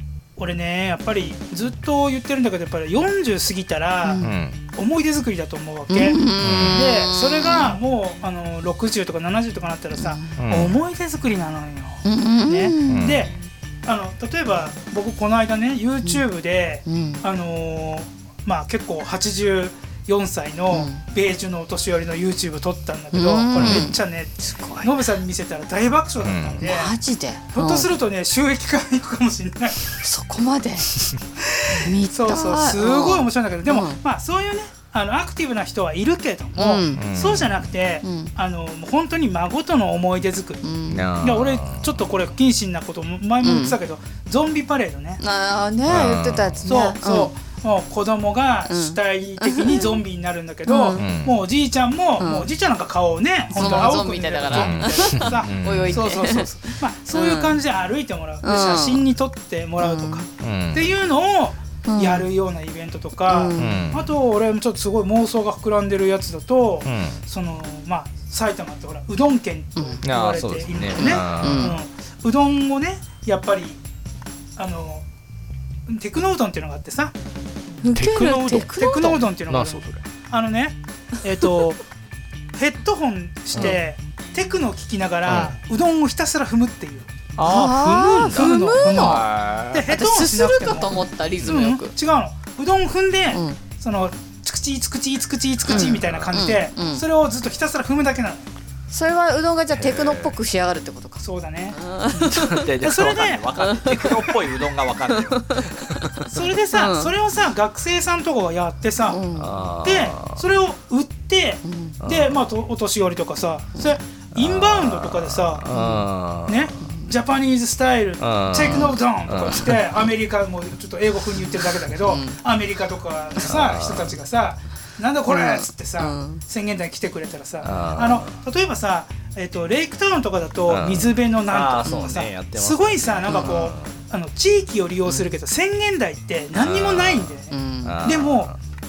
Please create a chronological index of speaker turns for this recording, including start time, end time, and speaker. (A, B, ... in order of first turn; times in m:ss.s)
0:00.4-0:26.9 A
0:04.0-0:04.3 B
0:04.2-0:04.6 C
0:05.9-0:07.8 B
0:06.4-0:06.8 C
0:10.0-0:10.4 B
0:10.4-0:10.8 C
0:12.0-0:13.1 B
0:12.9-0:13.3 C
0:16.9-0:17.2 B
0:20.7-0:21.0 B
0:23.1-0:24.9 B
0:23.6-0:23.9 C
0:26.2-0:26.6 C
0:26.6-0:27.9 B
0:27.5-0:30.0 A
0:29.9-0:31.1 B
0:31.4-0:40.6 A
0:31.7-0:34.0 B
0:36.6-0:37.0 B
0:37.0-0:37.6 C
0:38.0-0:38.3 B
0:40.6-0:41.1 B
0:40.9-0:42.0 C
0:41.2-0:45.2 A
0:43.4-0:43.8 B
0:45.2-0:47.3 B
0:45.9-0:46.7 C
0:46.7-1:13.8 A
0:48.7-0:50.0 B
0:50.7-0:51.0 B
0:51.0-0:51.4 C
0:52.2-0:52.5 B
0:53.5-0:57.6 B
0:53.6-0:54.0 C
0:54.5-0:56.1 C
0:58.4-0:59.0 B
0:59.8-1:00.2 B
1:00.4-1:01.0 C
1:01.9-1:02.3 B
1:03.3-1:03.9 B
1:03.6-1:04.1 C
1:06.8-1:07.2 C
1:10.0-1:11.7 C
1:11.0-1:11.8 B
1:14.6-1:15.0 A
1:15.9-1:17.1 A
1:17.8-1:19.2 B
1:18.0-1:18.6 C
1:18.2-1:21.8 A
1:19.5-1:20.0 C
1:22.5-1:38.5 A
1:23.5-1:23.8 C
1:25.3-1:25.6 C
1:27.4-1:29.9 C
1:27.4-1:29.2 B
1:29.8-1:31.9 B
1:33.3-1:33.6 B
1:35.7-1:37.0 B
1:35.8-1:36.4 C
1:38.9-1:42.7 B
1:39.8-1:40.4 C
1:41.2-1:41.8 A
1:42.2-1:46.3 C
1:42.8-1:43.5 A
1:43.6-1:46.1 B
1:46.2-1:49.2 A
1:46.7-1:47.1 B
1:49.1-1:49.7 B
1:49.3-1:50.4 C
1:49.8-1:55.7 A
1:51.6-1:52.0 B
1:52.0-1:52.4 C
1:54.3-1:56.8 C
1:55.7-1:56.1 B
1:56.4-2:18.5 A
1:56.8-1:57.1 B
1:58.2-1:59.8 C
1:58.7-1:59.0 B
2:02.0-2:02.4 B
2:03.4-2:04.1 C
2:05.3-2:06.4 B
2:07.6-2:08.3 C
2:10.7-2:14.0 C
2:13.3-2:13.7 B
2:16.5-2:18.6 C
2:17.5-2:18.0 B